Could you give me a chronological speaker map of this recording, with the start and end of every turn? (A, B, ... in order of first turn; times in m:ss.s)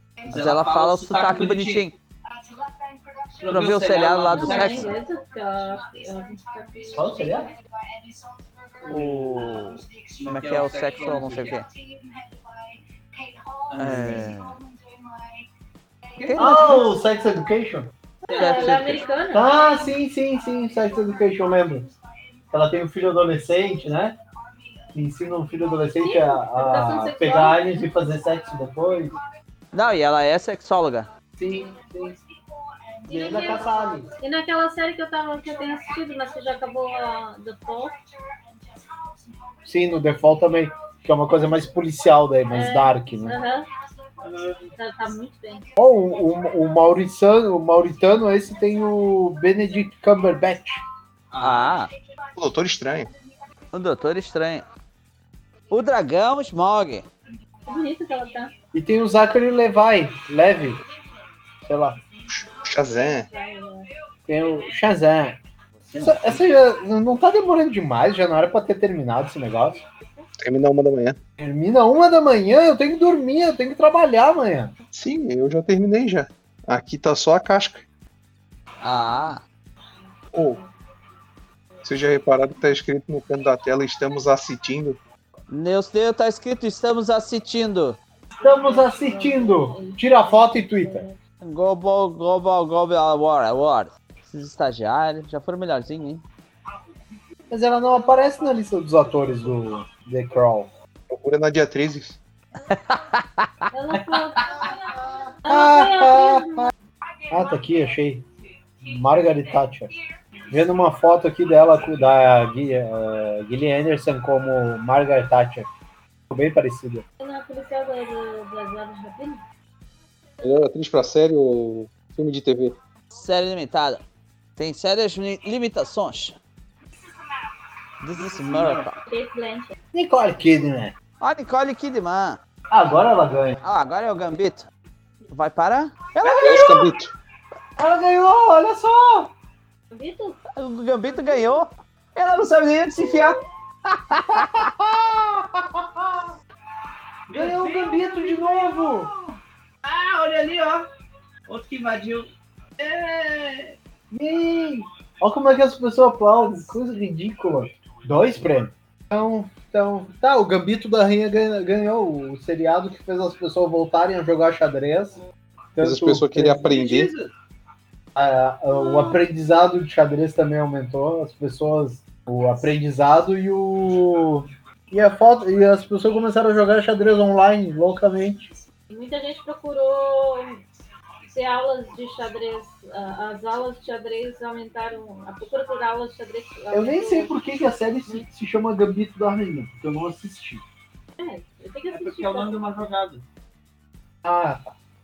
0:00.2-0:01.9 A
0:00.3-0:01.9 B
0:03.4-0:04.9 A
0:03.5-0:04.9 B
0:04.3-0:07.0 C
0:06.9-0:07.5 D
0:08.8-0:11.7 B
0:10.2-0:11.6 A
0:13.7-0:14.3 A
0:13.7-0:14.6 B
0:16.2-0:16.9 B
0:16.2-0:16.6 A
0:16.4-0:17.9 D
0:18.3-0:19.5 C
0:18.3-0:19.0 B
0:18.4-0:18.7 A
0:19.3-0:21.9 D
0:22.5-0:24.2 D
0:24.9-0:29.2 D
0:26.0-0:27.7 C
0:29.7-0:31.1 B
0:31.4-0:32.2 D
0:33.1-0:34.1 D
0:33.1-0:38.0 C
0:39.6-0:43.4 D
0:42.5-0:43.7 C
0:44.2-0:44.7 A
0:44.8-0:45.7 C
0:45.8-0:50.8 D
0:51.3-0:51.7 A
0:51.4-0:51.9 B
0:52.3-0:53.1 E
0:53.7-0:54.6 B
0:55.7-0:57.0 B
0:57.6-0:58.5 C
0:58.7-1:00.8 D
1:01.6-1:02.0 D
1:02.3-1:03.3 E
1:03.1-1:03.9 C
1:04.3-1:05.4 D
1:05.9-1:06.4 A
1:06.0-1:09.8 D
1:10.4-1:11.2 E
1:11.4-1:14.7 D
1:14.9-1:17.8 E
1:18.8-1:19.4 B
1:20.3-1:20.6 E
1:21.8-1:25.0 E
1:25.5-1:28.0 B
1:28.4-1:31.2 C
1:28.4-1:31.0 D
1:31.4-1:36.2 B
1:37.5-1:40.7 D
1:41.1-1:42.2 E
1:42.7-1:44.2 B
1:43.7-1:46.7 C
1:45.4-1:46.7 D
1:47.3-1:48.3 D
1:48.8-1:50.0 D
1:50.5-1:55.7 D
1:56.3-1:57.0 D
1:57.2-1:59.4 C
2:00.4-2:02.8 E
2:03.1-2:04.0 B
2:04.6-2:06.4 B
2:08.0-2:09.0 B
2:08.2-2:08.8 A
2:09.0-2:09.7 C
2:09.9-2:10.9 D
2:11.2-2:12.4 B
2:12.7-2:13.6 D
2:13.6-2:14.6 B
2:15.3-2:16.9 B
2:16.2-2:17.1 E
2:17.8-2:19.3 D
2:19.9-2:20.4 C
2:20.6-2:24.7 B
2:23.0-2:23.3 C
2:24.3-2:26.3 D
2:27.3-2:30.9 A
2:27.3-2:29.1 D
2:31.5-2:33.8 A
2:34.1-2:45.2 D
2:45.8-2:46.6 D
2:45.8-2:47.1 E
2:46.5-2:47.3 A
2:48.1-2:58.5 D
2:48.7-2:49.2 C
2:58.9-3:00.6 C
3:01.2-3:07.3 C
3:06.7-3:10.6 D
3:11.2-3:12.8 C
3:11.9-3:13.2 A
3:14.2-3:14.7 D